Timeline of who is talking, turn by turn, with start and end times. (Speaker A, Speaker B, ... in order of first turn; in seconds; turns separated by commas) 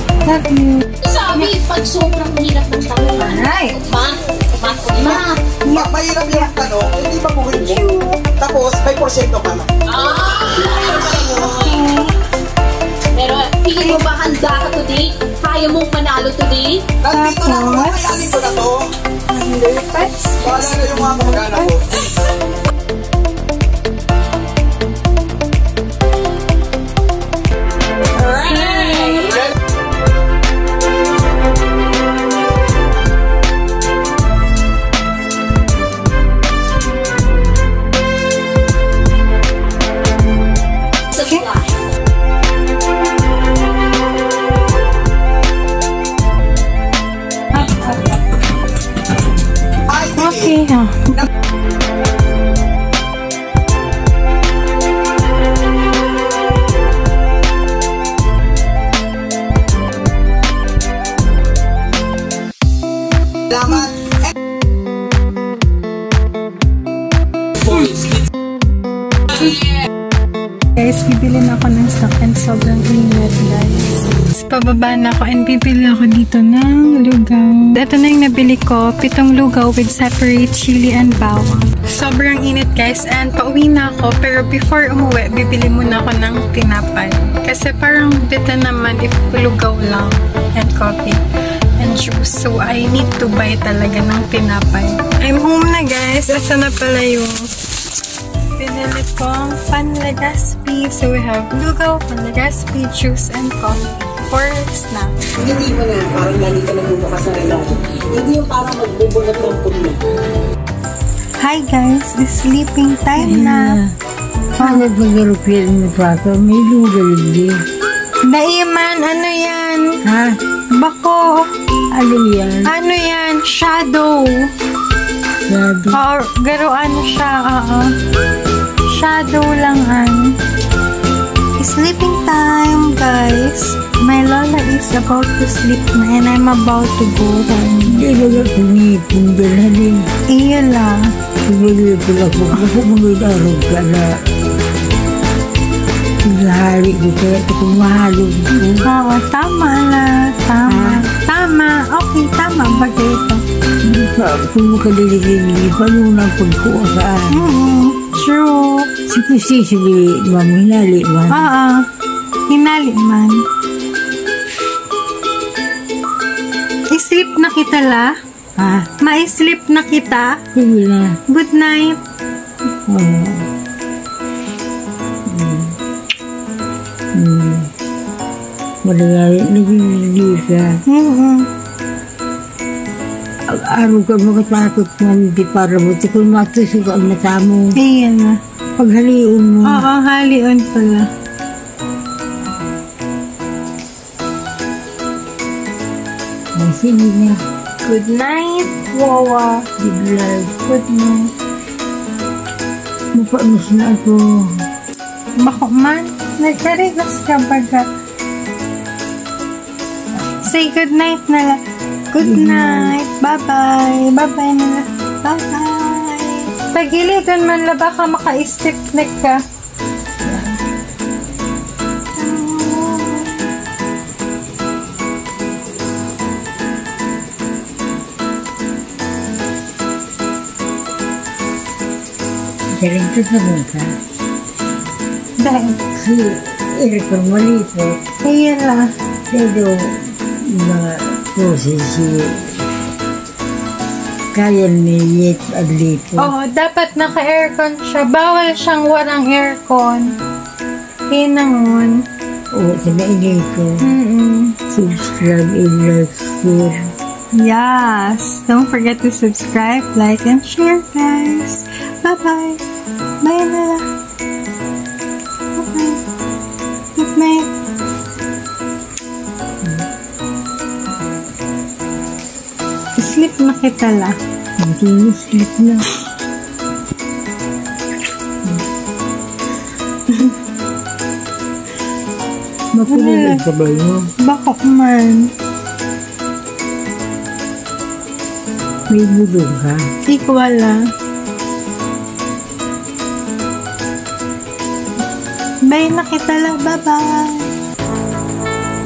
Speaker A: 0.2-0.8, Speaker B: 1.0-5.5, Speaker A: 3.2-3.8, Speaker A: 5.6-6.5, Speaker C: 5.7-7.7, Speaker A: 7.5-8.2, Speaker C: 8.4-9.7, Speaker B: 9.9-11.7, Speaker A: 11.2-12.1, Speaker B: 13.1-16.9, Speaker A: 13.8-14.1, Speaker A: 17.0-18.5, Speaker C: 17.1-18.8, Speaker A: 19.3-22.1, Speaker B: 28.2-29.3, Speaker A: 28.2-29.4, Speaker A: 41.1-41.5, Speaker B: 41.3-41.7, Speaker A: 47.5-48.2, Speaker C: 49.9-50.2, Speaker A: 50.0-51.3, Speaker A: 63.5-64.0, Speaker A: 67.7-68.0, Speaker A: 70.8-91.2, Speaker A: 91.8-97.5, Speaker A: 98.5-105.1, Speaker C: 105.4-110.0, Speaker A: 111.4-113.8, Speaker D: 113.2-114.0, Speaker A: 114.6-114.9, Speaker D: 114.6-117.6, Speaker A: 118.3-120.0, Speaker D: 120.0-120.4, Speaker A: 120.7-121.5, Speaker D: 121.9-122.7, Speaker A: 122.7-124.5, Speaker D: 125.5-126.0, Speaker A: 125.9-127.9, Speaker A: 128.8-130.4, Speaker A: 131.6-138.1, Speaker D: 137.8-140.1, Speaker A: 140.3-141.1, Speaker D: 141.4-144.3, Speaker D: 146.2-148.9, Speaker A: 148.7-153.4, Speaker D: 150.7-151.0, Speaker D: 153.8-157.4, Speaker A: 157.3-158.9, Speaker D: 159.1-161.4, Speaker A: 161.3-161.9, Speaker A: 162.5-163.4, Speaker A: 166.9-168.2, Speaker D: 168.6-168.9, Speaker A: 169.0-170.4, Speaker D: 170.5-171.2, Speaker A: 171.3-172.0, Speaker D: 172.9-173.5, Speaker D: 175.2-175.8, Speaker D: 177.1-177.7, Speaker D: 178.8-180.8, Speaker A: 180.8-181.5, Speaker D: 183.5-187.7, Speaker A: 187.7-188.4, Speaker D: 188.8-189.9, Speaker A: 189.6-191.1, Speaker D: 196.6-197.4, Speaker A: 197.8-199.7, Speaker D: 199.8-200.6, Speaker A: 200.7-201.3, Speaker D: 203.1-204.6, Speaker A: 205.4-207.9, Speaker A: 210.4-219.4, Speaker D: 212.2-212.9, Speaker D: 220.2-220.6, Speaker A: 222.2-223.5, Speaker D: 232.8-234.0, Speaker A: 235.4-235.8, Speaker D: 235.9-238.0, Speaker A: 238.2-238.9, Speaker D: 239.3-242.7, Speaker D: 244.3-246.3, Speaker A: 246.2-250.1, Speaker A: 251.1-252.1, Speaker D: 252.5-253.8, Speaker A: 253.8-254.6, Speaker D: 254.7-256.9, Speaker A: 257.4-262.6, Speaker A: 263.2-263.9, Speaker A: 265.6-266.0, Speaker A: 266.9-267.5, Speaker A: 272.9-274.1, Speaker D: 274.6-275.9, Speaker A: 280.1-280.3, Speaker D: 282.7-284.1, Speaker A: 282.9-283.4, Speaker A: 284.2-285.3, Speaker D: 288.9-289.8, Speaker A: 290.1-290.8, Speaker A: 295.7-297.5